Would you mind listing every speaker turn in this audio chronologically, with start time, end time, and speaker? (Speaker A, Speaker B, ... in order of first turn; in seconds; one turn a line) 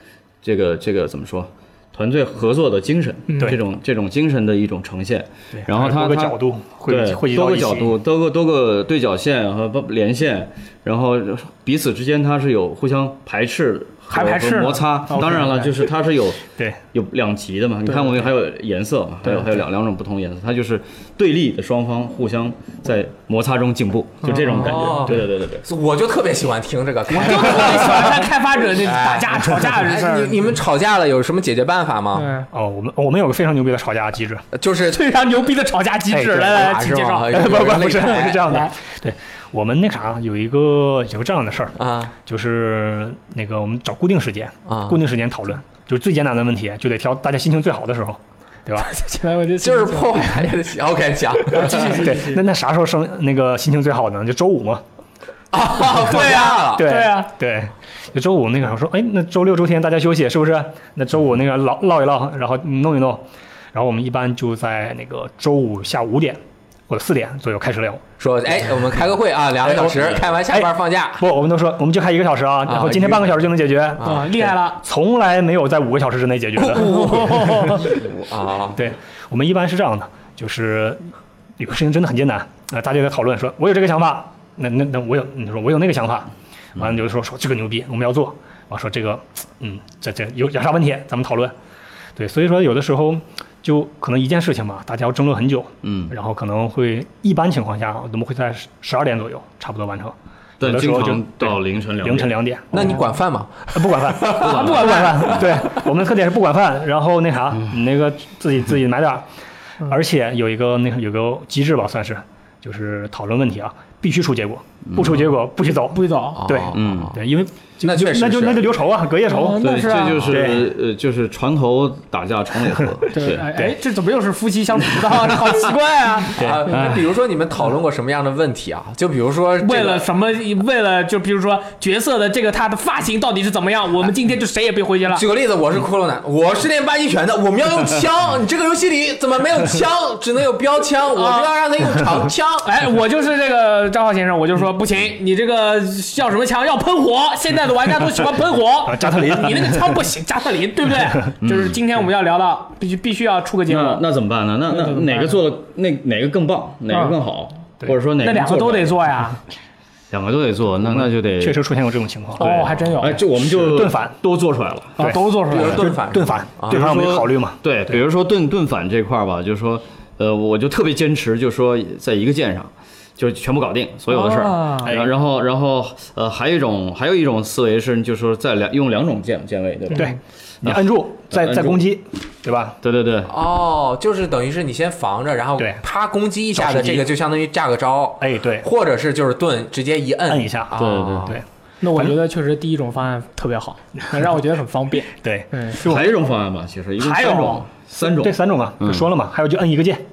Speaker A: 0.4-25.7
Speaker B: 3.3-3.6
Speaker C: 5.5-7.9
Speaker B: 14.1-14.9
Speaker C: 15.1-15.8
Speaker B: 24.2-24.8
Speaker D: 24.6-32.4
Speaker B: 27.1-30.4
Speaker B: 32.1-32.5
Speaker C: 32.5-34.5
Speaker D: 34.5-35.0
Speaker B: 34.9-37.5
Speaker C: 36.1-36.5
Speaker D: 36.4-38.6
Speaker C: 37.3-48.9
Speaker B: 38.0-38.7
Speaker D: 41.8-42.1
Speaker D: 44.7-45.0
Speaker B: 48.8-50.5
Speaker D: 49.6-52.0
Speaker B: 51.5-52.4
Speaker C: 51.5-54.8
Speaker D: 55.5-56.8
Speaker C: 55.9-68.0
Speaker B: 56.0-57.3
Speaker D: 68.2-71.2
Speaker C: 69.6-78.0
Speaker D: 72.7-73.3
Speaker D: 74.0-74.3
Speaker B: 74.0-74.8
Speaker D: 76.6-78.8
Speaker B: 76.7-77.9
Speaker C: 78.7-91.5
Speaker C: 92.2-102.9
Speaker A: 95.8-96.1
Speaker A: 100.6-102.9
Speaker D: 102.7-105.4
Speaker C: 103.7-109.2
Speaker A: 104.3-105.4
Speaker B: 104.4-105.2
Speaker C: 109.8-120.7
Speaker A: 114.8-115.2
Speaker B: 115.9-116.4
Speaker D: 116.3-117.2
Speaker A: 116.7-117.2
Speaker D: 117.8-118.6
Speaker B: 119.3-120.3
Speaker A: 119.6-123.5
Speaker B: 123.1-126.4
Speaker C: 123.4-123.8
Speaker D: 126.3-130.0
Speaker C: 126.4-126.9
Speaker B: 129.6-135.2
Speaker D: 135.1-142.7
Speaker B: 141.1-141.5
Speaker B: 142.6-154.0
Speaker C: 148.8-150.0
Speaker A: 151.4-151.8
Speaker A: 153.7-158.9
Speaker B: 154.7-155.4
Speaker B: 156.9-157.2
Speaker B: 158.2-159.4
Speaker A: 160.1-161.6
Speaker C: 160.8-162.5
Speaker A: 162.4-165.2
Speaker B: 162.4-163.2
Speaker C: 163.3-164.1
Speaker B: 165.0-165.8
Speaker C: 165.0-168.0
Speaker D: 165.5-166.8
Speaker A: 166.7-181.8
Speaker B: 174.1-174.9
Speaker C: 174.8-175.1
Speaker B: 179.9-180.2
Speaker C: 179.9-182.8
Speaker A: 182.8-183.3
Speaker D: 183.3-191.4
Speaker C: 185.6-185.8
Speaker C: 186.5-187.1
Speaker C: 188.2-188.7
Speaker C: 190.3-191.4
Speaker A: 190.7-191.4
Speaker B: 191.8-195.8
Speaker C: 195.1-196.2
Speaker A: 195.8-199.1
Speaker B: 197.0-197.7
Speaker C: 198.0-200.0